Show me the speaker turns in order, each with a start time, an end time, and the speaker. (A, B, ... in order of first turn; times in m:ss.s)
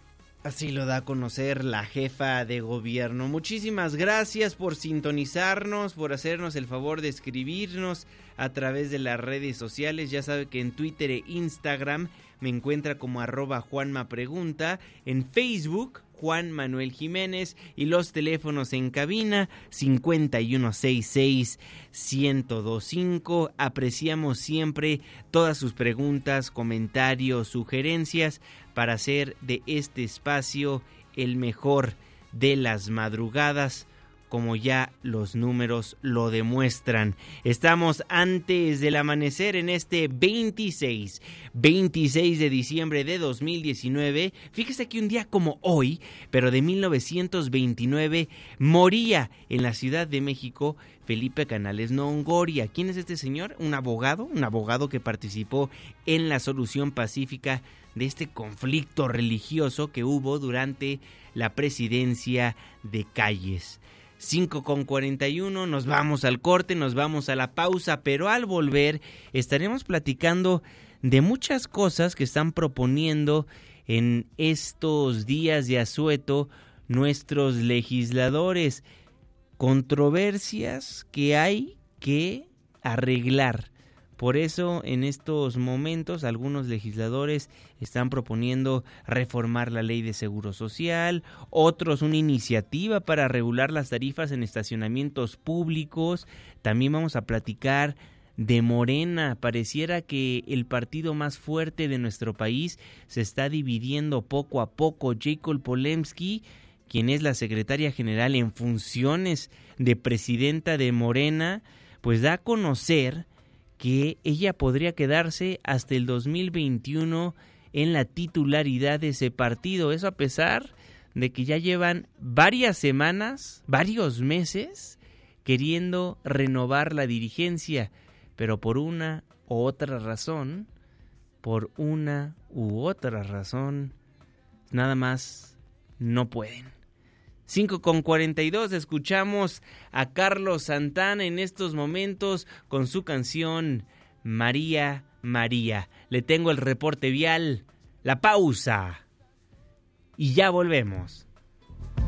0:00.4-1:18.8 A
1:19.6-1:53.2 A
1:53.8-2:10.7 A
2:11.4-2:13.9 A
2:14.7-2:16.7 A
2:17.5-2:29.0 A
2:30.2-2:31.2 A